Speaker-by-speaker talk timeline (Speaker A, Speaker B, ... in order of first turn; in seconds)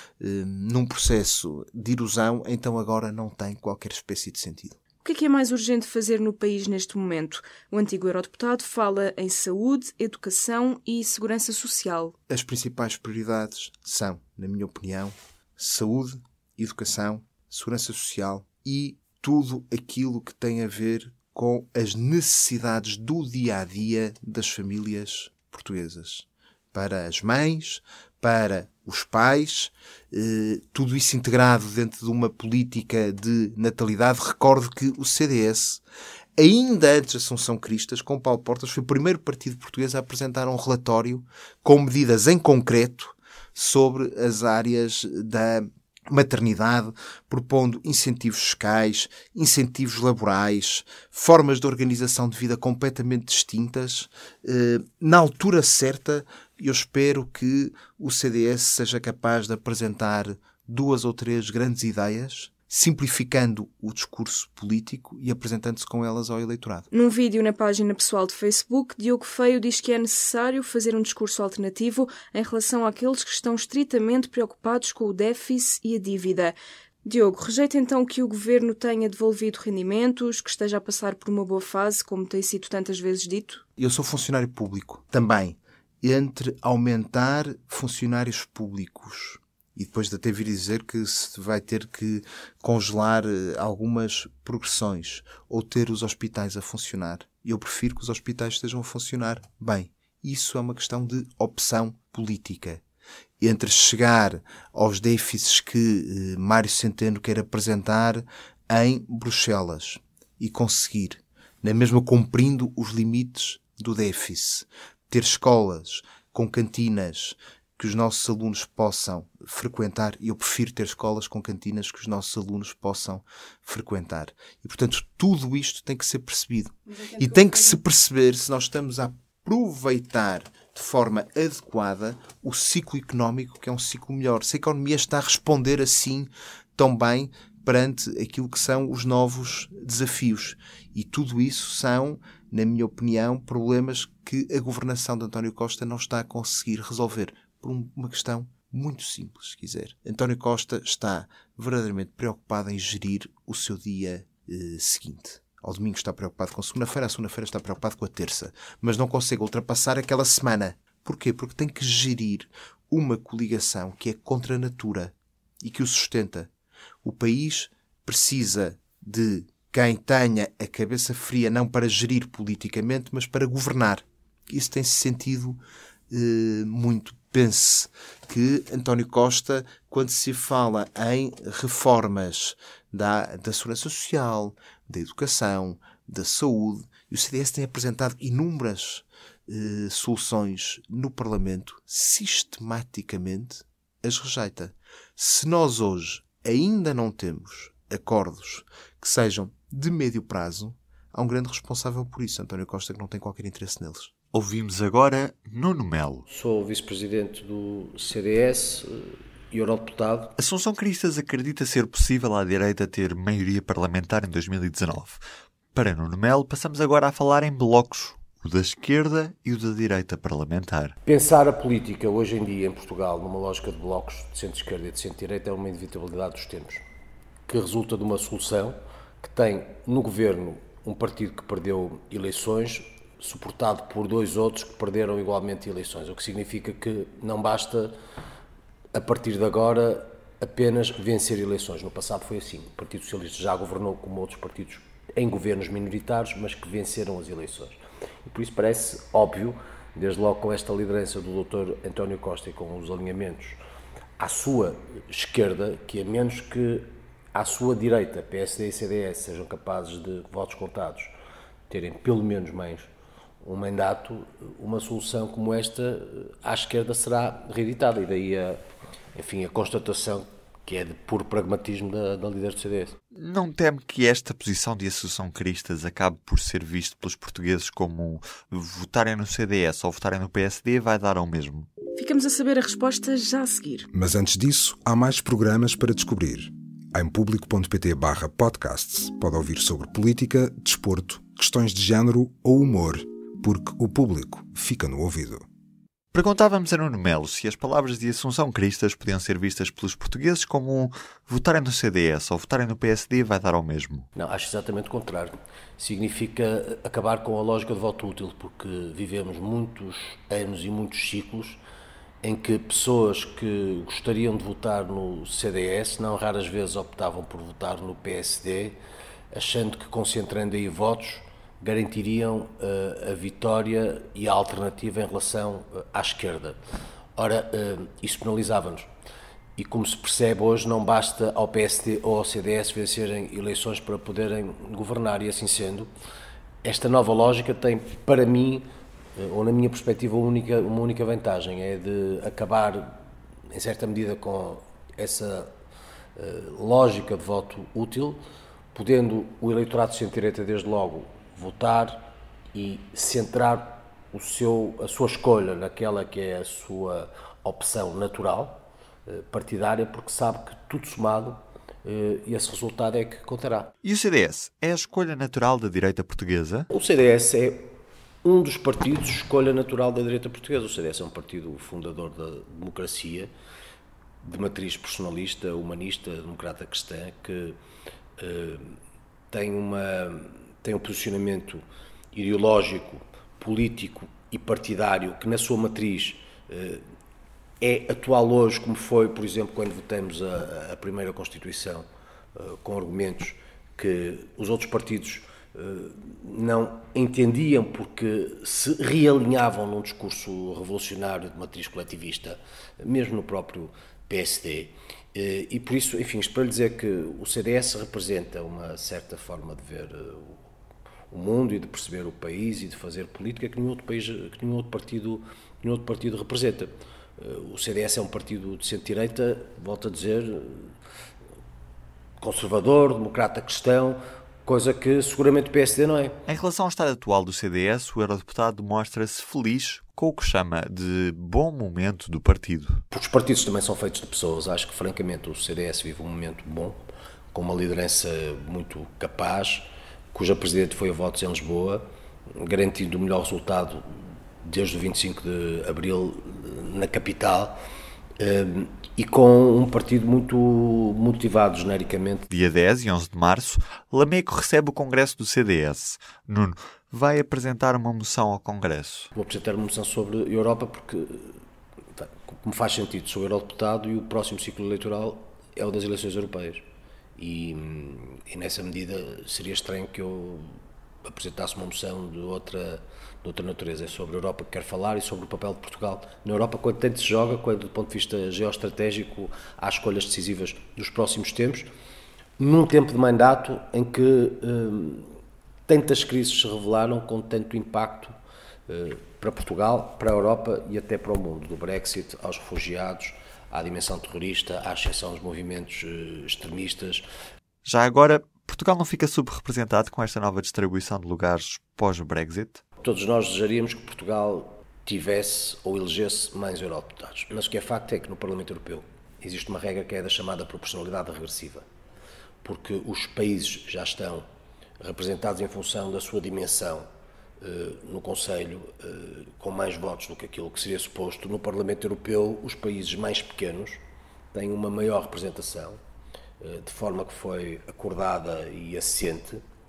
Speaker A: 0.2-4.8, 12.3-35.8, 36.4-66.9, 83.8-102.8, 103.4-166.5, 167.0-175.6, 176.1-204.1
Speaker B: 5.0-12.2, 66.9-83.6, 281.9-283.9
Speaker C: 204.3-206.2, 210.4-215.2, 215.7-220.9, 273.1-281.7, 296.1-304.1, 363.8-366.7, 426.3-432.8, 452.3-459.1, 497.6-502.6
Speaker D: 206.3-210.3, 221.1-226.8, 227.5-237.9, 238.9-253.6, 254.2-261.1, 261.7-262.9, 263.4-268.6, 269.1-273.0, 304.1-311.6, 312.2-318.8, 319.3-326.6, 327.2-328.9, 329.6-335.9, 336.6-338.6, 339.2-345.5, 346.2-348.2, 348.7-363.7, 366.7-373.3, 374.2-377.6, 378.2-378.8, 379.3-386.8, 387.6-410.4, 411.1-420.7, 422.2-426.2, 432.9-436.8, 437.3-441.8, 442.3-443.9, 444.4-447.6, 448.2-452.3, 459.1-461.4, 461.9-466.6, 467.2-481.7, 482.4-485.1, 485.7-488.1, 488.7-497.1, 502.8-511.7, 512.4-514.3, 514.8-516.9, 517.4-523.8, 524.3-525.8, 526.4-529.4
Speaker E: 283.9-295.4